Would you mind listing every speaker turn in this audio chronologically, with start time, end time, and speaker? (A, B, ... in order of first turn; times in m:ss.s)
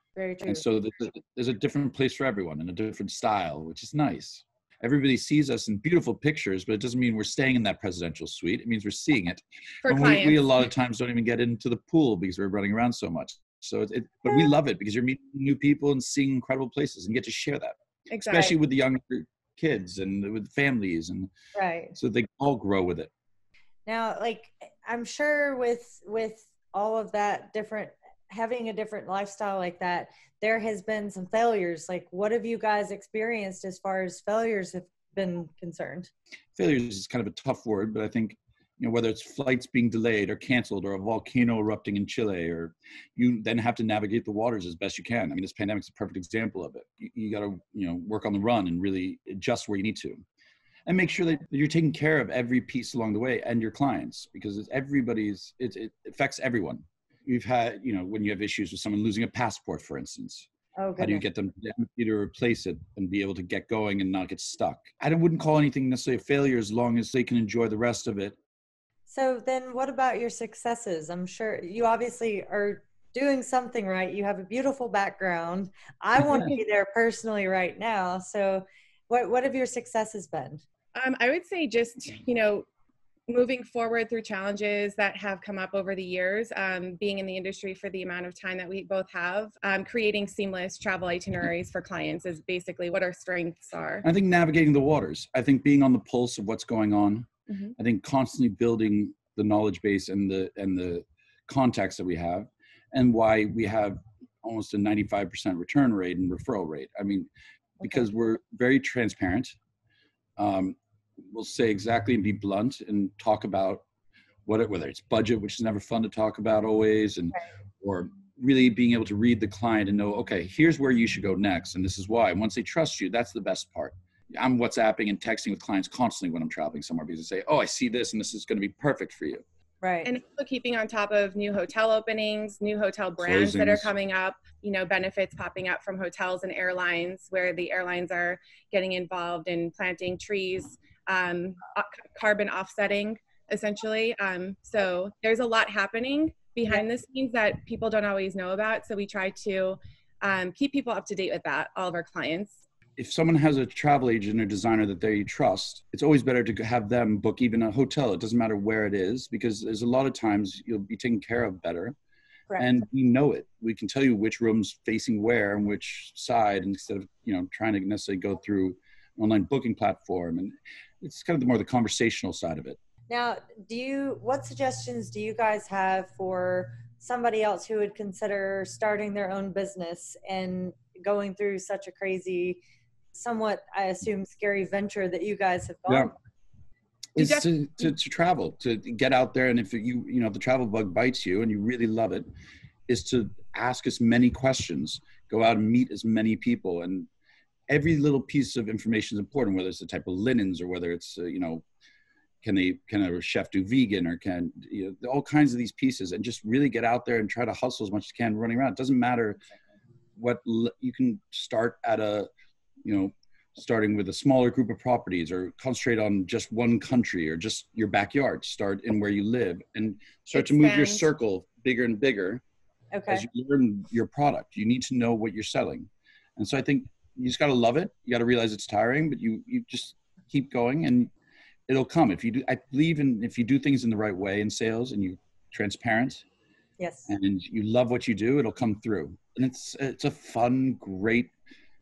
0:00.2-0:00.6 A
0:00.4-0:21.3 B
0:09.8-0:10.6 C
0:18.1-0:18.6 C
0:21.6-0:21.9 A
0:22.0-0:23.1 B
0:23.9-0:36.1 A
0:36.6-0:50.2 B
0:50.9-1:00.5 B
1:00.8-1:01.2 A
1:01.0-1:08.4 B
1:09.1-1:20.6 A
1:21.0-1:22.7 C
1:23.3-1:34.0 C
1:34.0-1:47.3 B
1:37.5-1:37.8 C
1:47.8-1:49.6 B
1:50.4-1:50.8 B
1:51.3-1:53.8 B
1:54.5-2:09.4 B
2:09.8-2:10.1 A
2:10.0-2:32.6 C
2:13.2-2:13.9 B
2:33.0-2:42.0 B
2:42.6-2:52.8 B
2:53.1-3:02.6 A
3:03.2-3:06.2 A
3:05.9-3:06.1 B
3:07.2-3:12.3 B
3:07.2-3:07.5 C
3:12.9-3:17.1 B
3:17.7-3:21.6 B
3:22.4-3:29.4 B
3:30.2-3:32.3 B
3:32.8-3:42.4 B
3:40.3-3:41.1 C
3:42.9-3:43.2 A
3:43.1-3:51.1 B
3:51.7-3:56.2 B
3:56.8-3:57.1 A
3:57.1-4:01.3 B